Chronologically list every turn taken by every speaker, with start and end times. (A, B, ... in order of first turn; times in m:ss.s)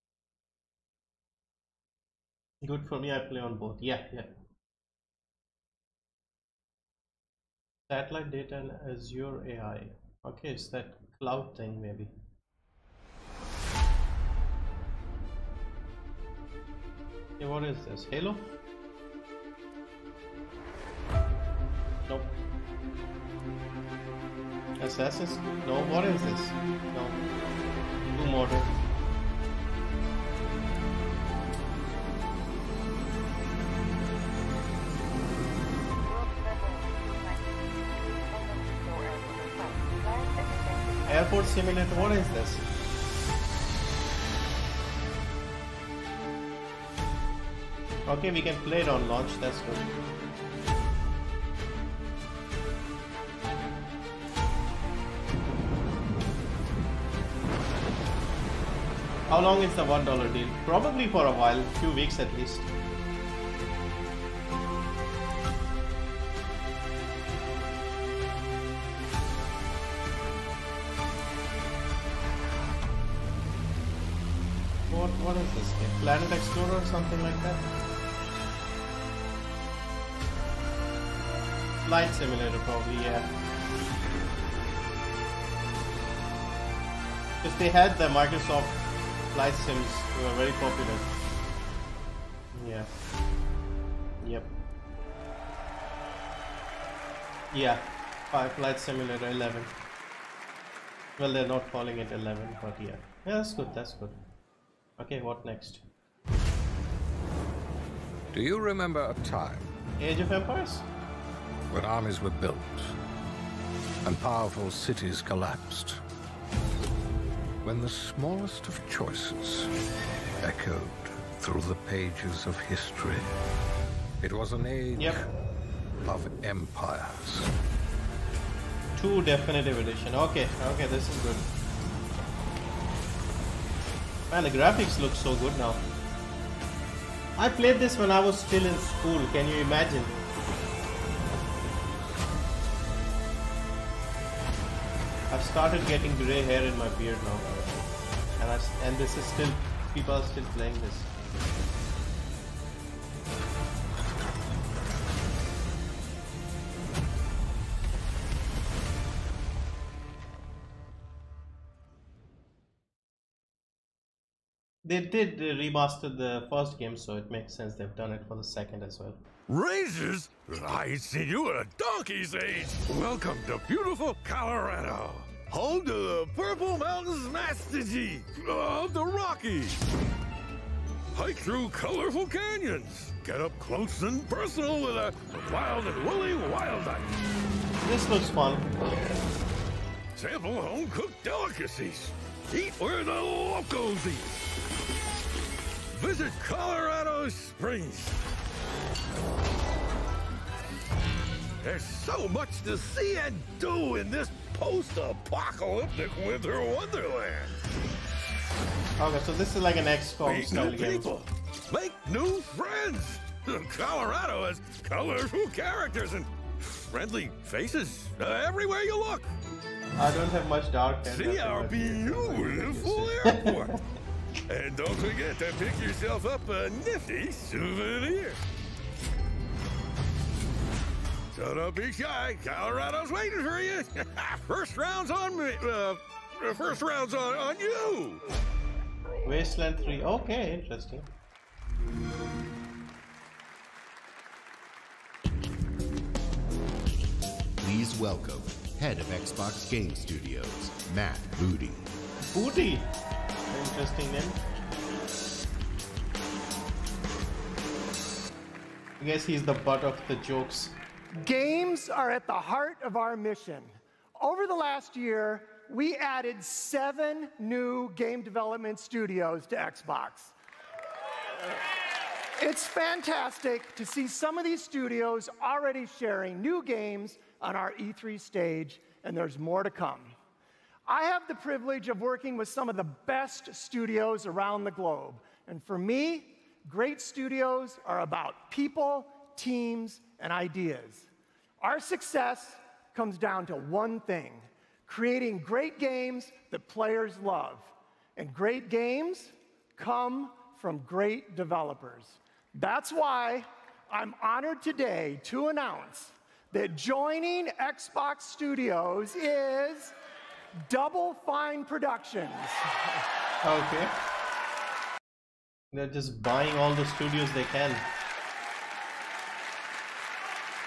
0:02.6-0:04.4 A
0:07.9-0:12.1 A
0:17.4-0:18.5 A
0:22.1-0:22.3 A
0:24.8-0:27.2 A
0:28.1-0:28.7 A
0:41.1-0:42.6 A
0:48.1-0:50.0 A
0:59.3-1:02.7 A
1:14.9-1:17.6 A
1:21.8-1:23.3 A
1:27.4-1:31.1 A
1:32.5-1:32.9 A
1:34.2-1:34.5 A
1:37.5-1:39.7 A
1:41.2-1:44.2 A
1:45.0-1:45.9 A
1:48.3-1:49.7 B
1:50.0-1:50.8 A
1:51.7-1:53.0 B
1:54.0-1:56.0 B
1:57.6-1:59.7 B
2:00.4-2:03.3 B
2:04.2-2:05.2 B
2:05.0-2:05.2 A
2:06.0-2:07.5 B
2:09.0-2:11.5 A
2:14.3-2:15.8 A
2:17.4-2:20.1 A
2:25.3-2:27.7 A
2:28.4-2:31.1 A
2:44.8-2:49.2 A
2:49.5-2:59.7 C
3:01.2-3:07.0 C
3:07.8-3:08.8 A
3:10.2-3:14.3 C
3:16.0-3:18.1 C
3:21.6-3:27.5 C
3:29.0-3:31.2 A
3:30.3-3:36.3 C
3:36.9-3:39.2 C
3:40.0-3:43.8 A
3:41.1-3:43.7 C
3:44.5-3:48.4 C
3:51.3-3:58.2 C
3:59.2-4:01.1 A
4:07.6-4:11.9 D
4:12.3-4:12.9 A
4:13.5-4:14.4 A
4:19.0-4:20.8 A
4:21.2-4:30.4 E
4:32.4-4:40.2 E
4:40.9-4:51.1 E
4:51.6-5:10.0 E
5:10.6-5:12.6 E
5:13.4-5:13.9 A
5:15.7-5:17.9 A